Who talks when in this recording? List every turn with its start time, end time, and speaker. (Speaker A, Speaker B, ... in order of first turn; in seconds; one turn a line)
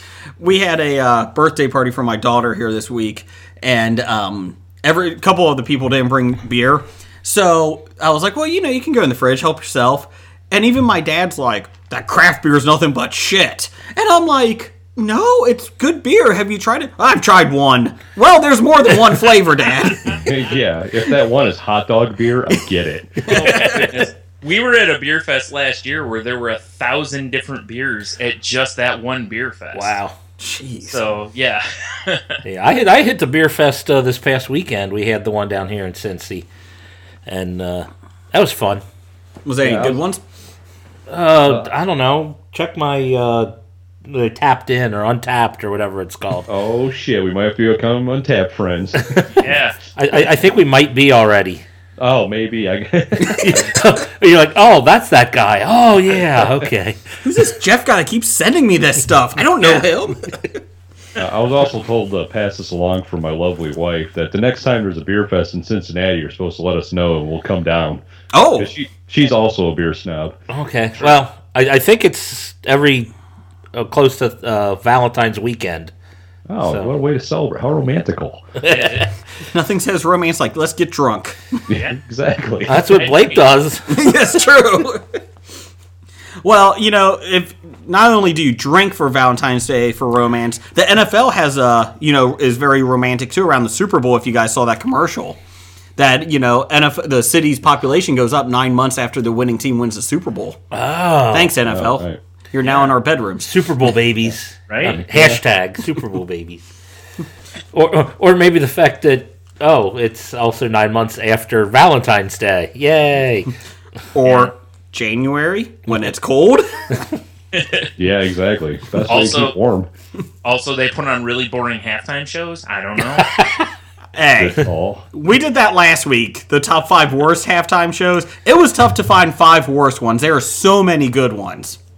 Speaker A: 0.4-20.1
Speaker B: 20.1-23.4
Speaker C: 23.2-29.9
Speaker A: 23.3-23.9
Speaker D: 29.7-30.1
Speaker A: 30.4-31.1
Speaker C: 30.8-32.4
Speaker D: 32.4-36.5
Speaker D: 37.2-38.8
Speaker A: 39.4-40.2
Speaker B: 39.6-40.0
Speaker D: 41.1-43.5
Speaker B: 41.4-41.7
Speaker D: 44.0-46.5
Speaker B: 46.5-49.2
Speaker D: 49.0-51.6
Speaker C: 49.4-49.8
Speaker B: 52.0-53.8
Speaker D: 53.3-57.0
Speaker A: 57.2-60.4
Speaker B: 61.2-68.0
Speaker A: 68.3-68.7
Speaker B: 68.5-70.4
Speaker D: 70.5-73.1
Speaker D: 73.7-75.9
Speaker B: 76.5-78.5
Speaker D: 76.6-77.0
Speaker D: 78.6-79.1
Speaker C: 78.6-79.0
Speaker A: 79.5-81.6
Speaker B: 81.7-82.9
Speaker C: 81.7-82.0
Speaker D: 82.7-84.0
Speaker C: 82.9-83.5
Speaker A: 83.9-85.2
Speaker A: 86.4-95.4
Speaker A: 96.0-100.6
Speaker D: 100.7-101.5
Speaker A: 101.3-103.5
Speaker B: 101.7-102.2
Speaker C: 102.6-102.9
Speaker D: 103.4-106.7
Speaker C: 104.7-105.0
Speaker B: 104.8-105.4
Speaker D: 107.7-113.5
Speaker A: 114.1-117.0
Speaker C: 114.2-114.5
Speaker C: 117.5-117.9
Speaker B: 118.0-119.9
Speaker C: 119.0-119.5
Speaker C: 120.4-123.4
Speaker D: 123.2-123.7
Speaker A: 124.1-124.6
Speaker B: 124.4-125.0
Speaker A: 125.1-131.8